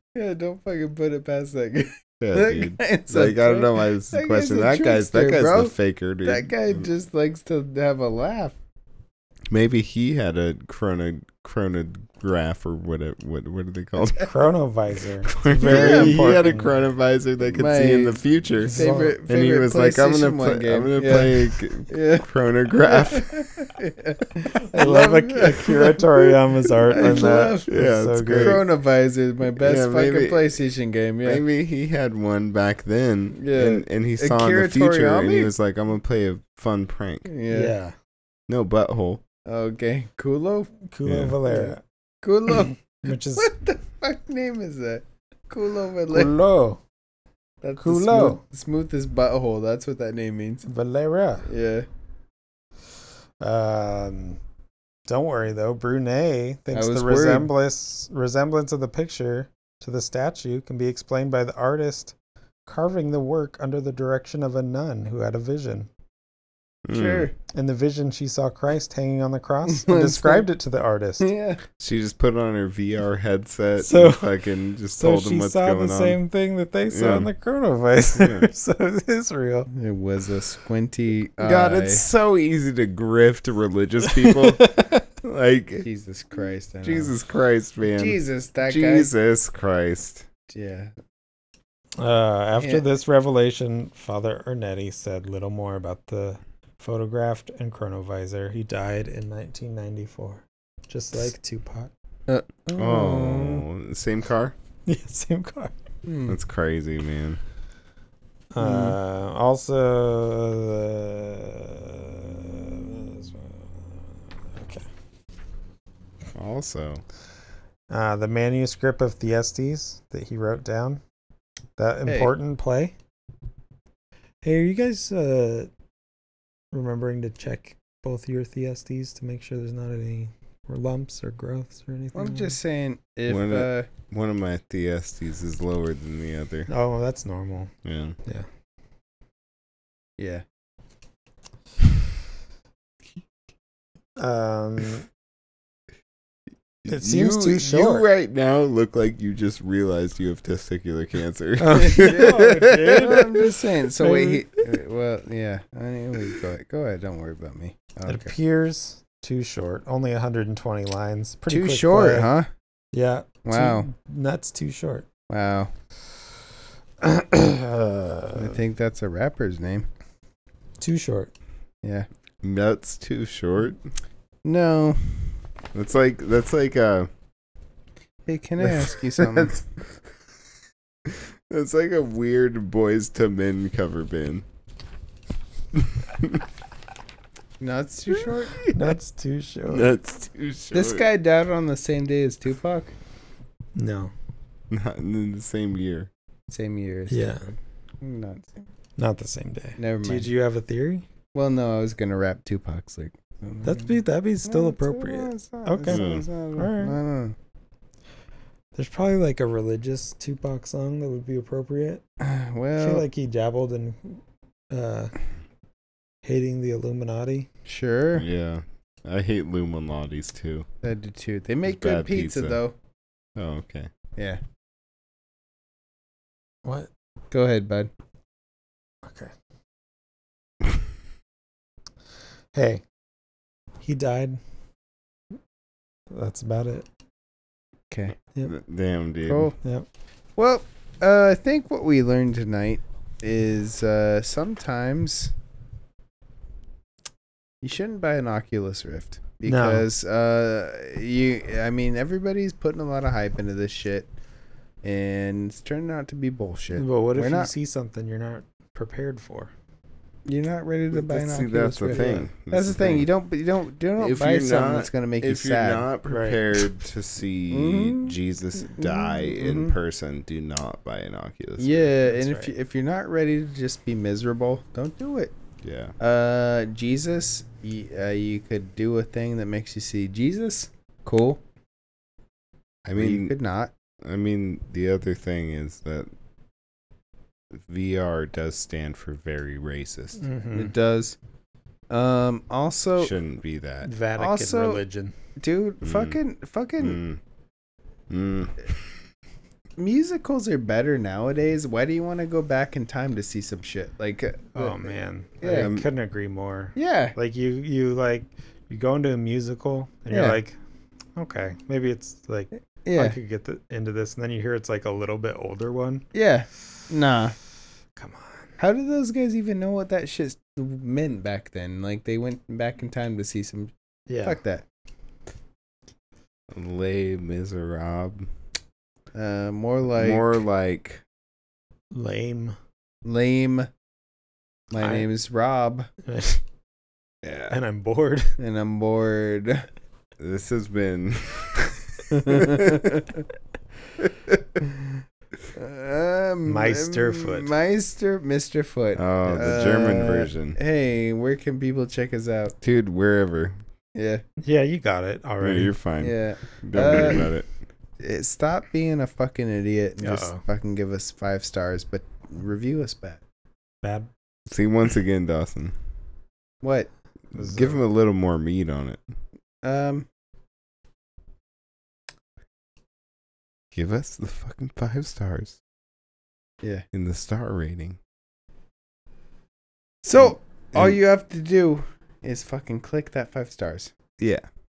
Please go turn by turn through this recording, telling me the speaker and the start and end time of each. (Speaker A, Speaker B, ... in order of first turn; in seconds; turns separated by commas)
Speaker A: 0.1-8.6, Speaker B: 2.2-6.9, Speaker B: 9.5-14.3, Speaker C: 14.0-16.8, Speaker B: 15.3-23.5, Speaker A: 15.7-16.2, Speaker A: 17.5-22.3, Speaker C: 18.6-19.2, Speaker A: 22.8-26.3, Speaker C: 24.6-28.6, Speaker A: 26.9-27.7, Speaker B: 27.2-28.6, Speaker A: 28.3-31.4, Speaker B: 29.6-30.6, Speaker B: 31.2-37.3, Speaker A: 33.4-35.5, Speaker A: 37.3-37.7, Speaker C: 37.5-38.0, Speaker B: 38.5-39.2, Speaker A: 39.5-40.7, Speaker C: 40.9-41.8, Speaker B: 41.0-41.4, Speaker A: 41.5-46.3, Speaker C: 42.5-43.5, Speaker C: 46.1-46.8, Speaker A: 47.6-50.7, Speaker C: 47.8-48.4, Speaker C: 50.7-51.5, Speaker A: 51.5-51.9, Speaker C: 53.4-54.4, Speaker C: 55.1-62.1, Speaker A: 56.7-57.5, Speaker C: 62.7-65.9, Speaker B: 66.9-67.3, Speaker A: 66.9-67.3, Speaker C: 67.5-71.3, Speaker A: 69.7-70.5, Speaker A: 71.2-71.6, Speaker B: 71.8-76.2, Speaker C: 73.8-74.3, Speaker C: 74.9-79.7, Speaker B: 76.9-77.3, Speaker B: 78.1-78.5, Speaker A: 79.7-82.0, Speaker B: 81.4-85.9, Speaker C: 84.1-85.0, Speaker A: 85.8-87.1, Speaker B: 86.8-90.3, Speaker A: 87.9-89.1, Speaker A: 90.5-90.9, Speaker C: 92.0-101.9, Speaker A: 102.3-103.7, Speaker B: 102.8-104.5, Speaker C: 104.9-105.7, Speaker A: 106.0-106.4, Speaker B: 106.3-107.4, Speaker C: 108.5-114.9, Speaker A: 108.6-109.0, Speaker B: 116.3-117.0, Speaker C: 117.9-121.0, Speaker C: 121.8-123.0, Speaker A: 122.1-122.3, Speaker C: 124.4-125.7, Speaker C: 126.7-132.6, Speaker A: 132.2-133.9, Speaker B: 133.3-136.7, Speaker C: 136.7-137.7, Speaker B: 137.8-138.2, Speaker A: 140.2-140.4, Speaker C: 144.2-145.1, Speaker B: 146.8-153.0, Speaker C: 146.9-148.1, Speaker C: 151.6-154.4, Speaker A: 151.8-158.3, Speaker C: 158.1-162.3, Speaker A: 161.5-162.5, Speaker C: 162.9-165.1, Speaker A: 163.4-163.9, Speaker A: 165.3-165.7, Speaker C: 167.0-168.6, Speaker A: 168.3-169.9, Speaker C: 170.8-171.3, Speaker B: 172.4-173.8, Speaker A: 174.4-175.4, Speaker B: 175.7-177.1, Speaker A: 178.3-179.6, Speaker B: 181.1-184.4, Speaker B: 185.8-186.4, Speaker A: 187.6-188.7, Speaker B: 188.1-188.8, Speaker C: 188.7-189.9, Speaker B: 189.7-191.1, Speaker A: 190.7-192.9, Speaker C: 193.8-194.1, Speaker B: 194.7-196.1, Speaker A: 196.5-197.3, Speaker C: 197.1-197.5, Speaker A: 198.0-198.7, Speaker C: 199.0-201.1, Speaker A: 199.8-200.3, Speaker A: 201.3-207.4, Speaker C: 203.6-207.0, Speaker B: 205.9-206.2, Speaker C: 208.8-212.0, Speaker A: 212.2-213.1, Speaker C: 212.8-215.2, Speaker C: 216.2-217.5, Speaker A: 217.7-218.3, Speaker B: 218.2-220.7, Speaker A: 220.8-222.7, Speaker B: 221.7-222.6, Speaker B: 223.4-223.9, Speaker A: 227.3-227.9, Speaker C: 229.1-229.3, Speaker C: 232.5-232.8, Speaker C: 233.8-234.4, Speaker C: 236.1-236.9, Speaker A: 237.9-238.2, Speaker B: 238.4-239.5, Speaker A: 239.3-239.6, Speaker A: 240.4-245.3, Speaker A: 247.6-254.1, Speaker C: 249.4-249.9, Speaker A: 254.8-257.5, Speaker C: 256.7-259.5, Speaker A: 260.3-265.9, Speaker B: 260.9-263.1, Speaker C: 261.9-262.2, Speaker B: 264.0-271.9, Speaker C: 266.1-266.6, Speaker A: 267.5-269.8, Speaker A: 271.6-275.3, Speaker C: 272.1-272.5, Speaker B: 275.6-275.9, Speaker A: 276.0-281.4, Speaker B: 282.9-283.3, Speaker A: 283.0-283.7, Speaker B: 284.0-286.1, Speaker B: 287.5-290.2, Speaker C: 290.2-290.7, Speaker A: 290.6-291.2, Speaker A: 291.9-293.1, Speaker B: 293.0-293.9, Speaker C: 293.8-295.1, Speaker A: 294.2-294.8, Speaker A: 295.4-297.0, Speaker B: 295.8-296.2, Speaker B: 296.8-297.2, Speaker B: 298.1-298.8, Speaker A: 299.8-305.7, Speaker C: 304.6-310.6, Speaker B: 305.5-305.9, Speaker A: 306.8-307.2, Speaker A: 310.1-310.4, Speaker C: 311.2-316.1, Speaker A: 312.9-313.2, Speaker A: 316.1-317.4, Speaker C: 318.0-318.5, Speaker A: 318.6-323.7, Speaker C: 324.1-324.4, Speaker A: 324.2-324.6, Speaker B: 326.5-328.3, Speaker A: 329.1-330.2, Speaker B: 329.9-331.0, Speaker C: 331.9-332.6, Speaker A: 333.0-333.7, Speaker A: 334.7-335.9, Speaker C: 334.8-335.1, Speaker C: 336.0-336.4, Speaker B: 337.2-337.6, Speaker C: 337.5-338.4, Speaker A: 338.4-339.7, Speaker B: 340.2-343.0, Speaker A: 342.1-343.2, Speaker B: 344.0-344.4, Speaker A: 345.6-352.6, Speaker C: 346.5-347.5, Speaker B: 349.0-350.6, Speaker B: 352.6-353.6, Speaker A: 353.9-354.2, Speaker C: 354.4-355.8, Speaker B: 355.4-357.5, Speaker A: 356.0-357.3, Speaker A: 358.0-363.2, Speaker C: 360.0-360.4, Speaker C: 363.8-364.1, Speaker B: 364.5-365.8, Speaker A: 366.6-366.9, Speaker B: 367.3-369.0, Speaker C: 367.3-367.8, Speaker A: 369.6-370.1, Speaker B: 373.7-375.6, Speaker B: 376.9-378.0, Speaker A: 380.0-383.9, Speaker B: 380.2-381.0, Speaker B: 384.2-384.5